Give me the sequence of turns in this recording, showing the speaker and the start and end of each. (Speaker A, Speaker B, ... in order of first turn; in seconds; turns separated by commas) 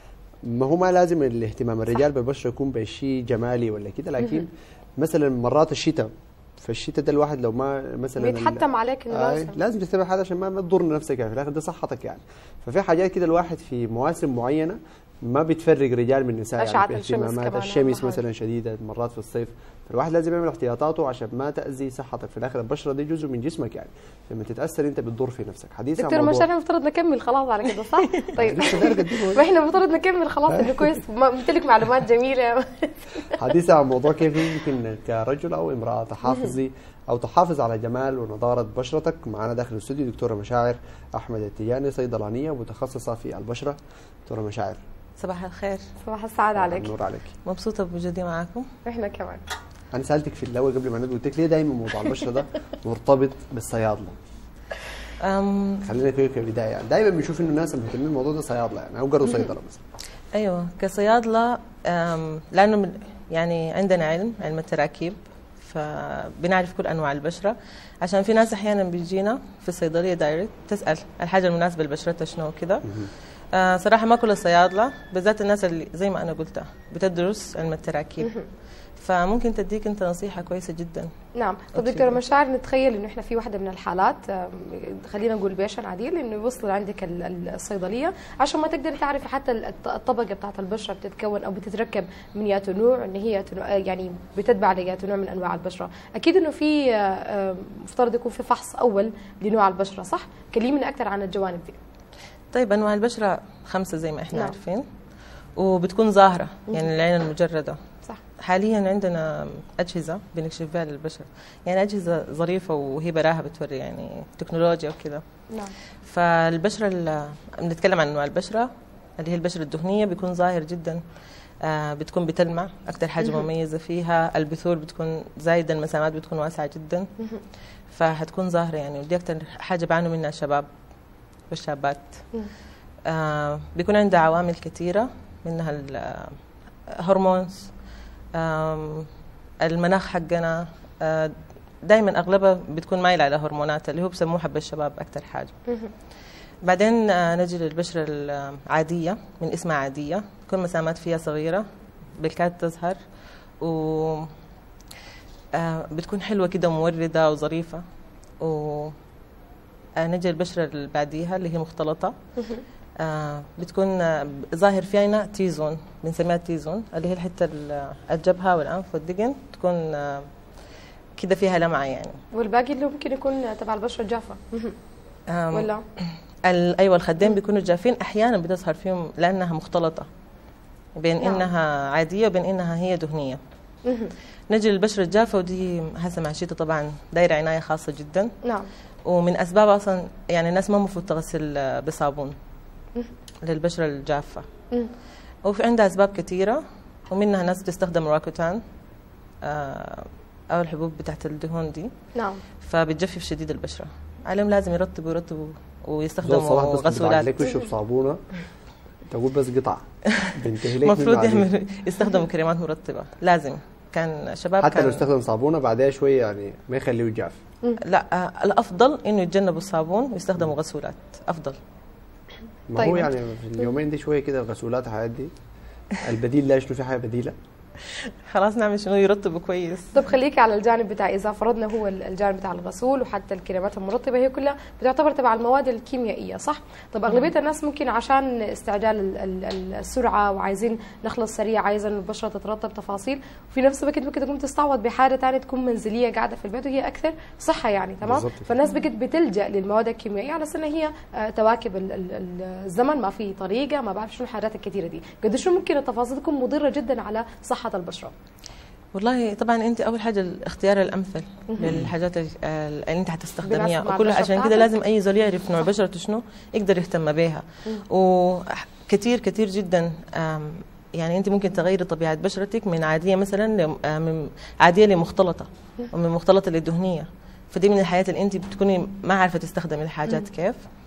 Speaker A: 0.4-6.1, Speaker A: 6.6-26.5, Speaker B: 8.2-9.6, Speaker B: 16.6-18.2, Speaker B: 26.0-33.3, Speaker C: 28.0-28.3, Speaker A: 28.4-29.4, Speaker A: 30.5-30.9, Speaker A: 33.4-44.8, Speaker C: 45.2-45.9, Speaker B: 46.0-46.9, Speaker A: 46.5-47.3, Speaker C: 47.4-48.7, Speaker B: 48.9-49.4, Speaker A: 49.9-54.1, Speaker C: 55.2-55.9, Speaker A: 55.8-59.8, Speaker C: 60.3-72.9, Speaker C: 73.5-78.3, Speaker B: 78.2-78.5, Speaker C: 79.0-81.1, Speaker B: 81.3-101.8, Speaker C: 81.7-82.2, Speaker C: 102.5-104.8, Speaker C: 105.6-107.8, Speaker C: 108.4-115.2, Speaker C: 116.0-121.0, Speaker C: 121.6-127.1, Speaker C: 127.9-130.7, Speaker C: 131.5-132.2, Speaker C: 133.1-136.4, Speaker C: 136.9-137.7, Speaker C: 138.3-139.1, Speaker C: 139.6-145.6, Speaker C: 146.6-151.6, Speaker C: 152.2-153.0, Speaker C: 153.6-154.3, Speaker C: 155.5-157.8, Speaker C: 158.4-158.9, Speaker C: 160.0-162.1, Speaker C: 163.0-170.3, Speaker C: 171.2-172.2, Speaker B: 172.3-174.8, Speaker C: 175.3-180.1, Speaker B: 175.5-175.8, Speaker C: 181.0-183.4, Speaker B: 181.2-181.5, Speaker B: 183.8-184.1, Speaker C: 184.5-188.3, Speaker B: 188.4-188.7, Speaker C: 189.1-192.3, Speaker C: 193.4-194.4, Speaker C: 195.4-198.6, Speaker C: 199.4-201.9, Speaker B: 202.1-202.4, Speaker C: 202.6-207.5, Speaker A: 206.2-208.2, Speaker A: 209.1-211.5, Speaker C: 210.8-215.0, Speaker A: 214.6-217.4, Speaker C: 217.8-221.6, Speaker A: 222.7-225.3, Speaker B: 222.8-223.1, Speaker A: 226.0-227.3, Speaker C: 227.9-230.1, Speaker B: 229.9-258.1, Speaker A: 248.0-248.5, Speaker C: 258.9-280.6, Speaker A: 261.6-261.9, Speaker B: 263.4-264.7